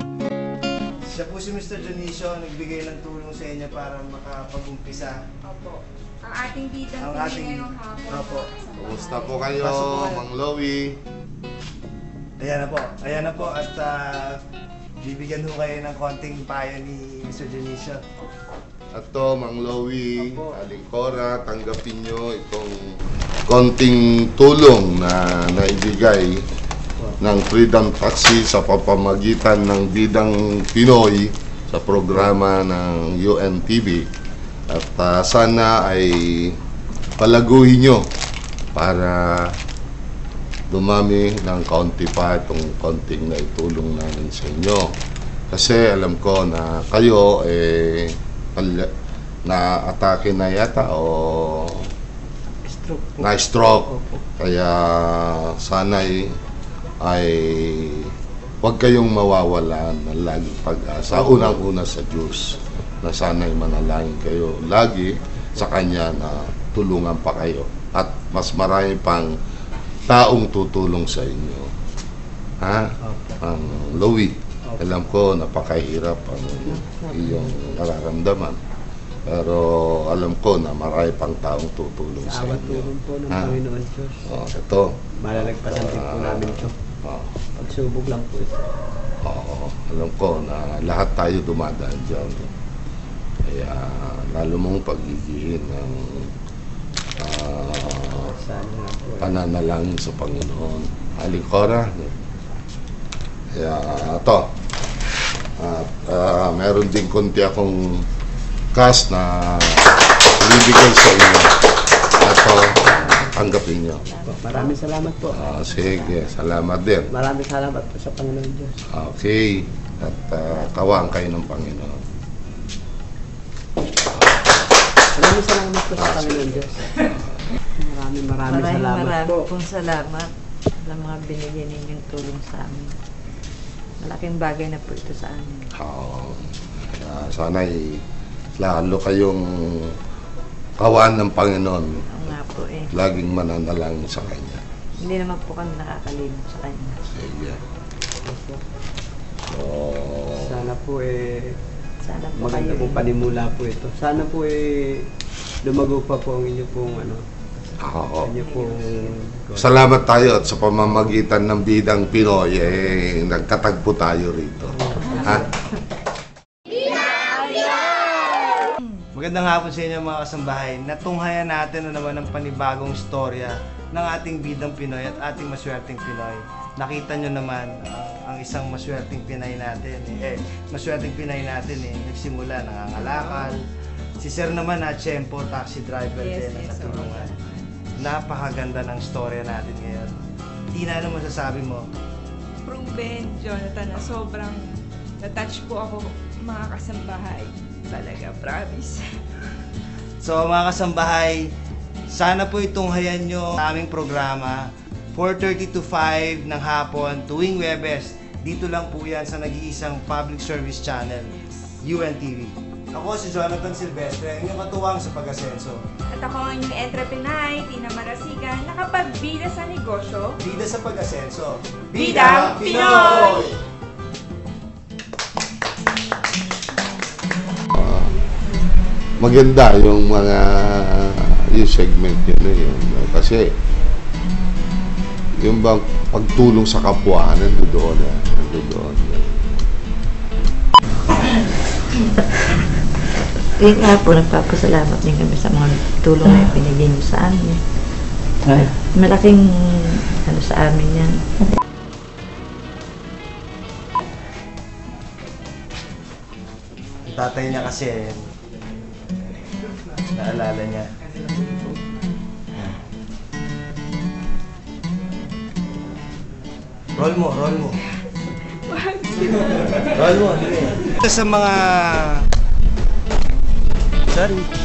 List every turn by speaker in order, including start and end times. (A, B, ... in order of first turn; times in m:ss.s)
0:01.0-0:05.2 A
0:05.4-0:09.5 B
0:07.0-0:08.5 A
0:08.8-0:11.0 C
0:09.6-0:10.2 A
0:12.4-0:14.4 A
0:15.0-0:18.0 A
0:18.9-0:26.4 C
0:20.2-0:20.6 D
0:27.2-0:34.1 C
0:34.7-0:36.6 C
0:37.2-0:38.1 C
0:38.7-0:39.6 C
0:40.7-0:44.9 C
0:45.5-0:48.9 C
0:49.4-0:51.9 C
0:52.6-0:53.3 D
0:53.2-0:56.3 C
0:53.8-0:54.2 D
0:57.0-1:09.3 C
1:01.1-1:01.5 D
1:10.1-1:11.7 C
1:12.6-1:18.6 C
1:13.0-1:13.4 D
1:16.6-1:17.8 D
1:19.3-1:23.6 C
1:22.2-1:24.3 D
1:24.2-1:27.3 C
1:25.2-1:26.8 D
1:27.6-1:28.6 D
1:29.2-1:32.5 C
1:33.4-1:36.3 C
1:37.2-1:38.3 C
1:38.2-1:39.4 D
1:39.2-1:42.2 C
1:43.5-1:44.5 C
1:45.6-1:48.0 C
1:48.7-1:51.5 C
1:52.2-1:54.0 C
1:52.8-1:53.3 D
1:53.9-1:54.8 E
1:54.2-1:55.4 D
1:55.3-1:57.1 C
1:55.4-1:56.2 E
1:57.1-1:58.8 D
1:58.9-2:02.0 C
2:00.4-2:01.0 E
2:05.1-2:07.0 D
2:06.0-2:07.4 C
2:07.8-2:09.5 D
2:08.4-2:10.3 E
2:10.8-2:13.0 E
2:14.0-2:15.7 E
2:15.8-2:18.0 C
2:18.6-2:20.0 C
2:20.8-2:21.9 C
2:22.1-2:22.9 E
2:22.9-2:24.6 C
2:25.0-2:27.0 E
2:27.1-2:27.6 C
2:28.2-2:28.6 D
2:29.5-2:30.7 C
2:30.4-2:31.5 D
2:32.0-2:33.1 E
2:32.3-2:35.0 D
2:35.6-2:37.2 D
2:37.8-2:38.3 C
2:38.2-2:39.8 D
2:38.3-2:39.2 E
2:39.6-2:45.4 C
2:44.7-2:45.4 D
2:49.1-3:03.6 A
3:00.1-3:00.4 B
3:03.0-3:03.6 B
3:04.2-3:07.3 A
3:06.2-3:07.7 B
3:08.0-3:10.1 A
3:10.7-3:11.9 A
3:12.6-3:19.1 B
3:20.2-3:21.5 A
3:22.1-3:35.8 A
3:31.3-3:31.7 B
3:36.1-3:40.4 B
3:40.4-3:43.6 A
3:41.9-3:43.6 B
3:47.7-3:48.2 C
3:49.2-3:53.5 C
3:55.4-3:59.3 C
4:03.6-4:07.6 E
4:08.7-4:11.2 E
4:17.0-4:18.2 A
4:20.1-4:20.9 A
4:27.0-4:27.8 A
4:28.2-4:29.8 B
4:29.7-4:32.3 A
4:34.1-4:34.5 A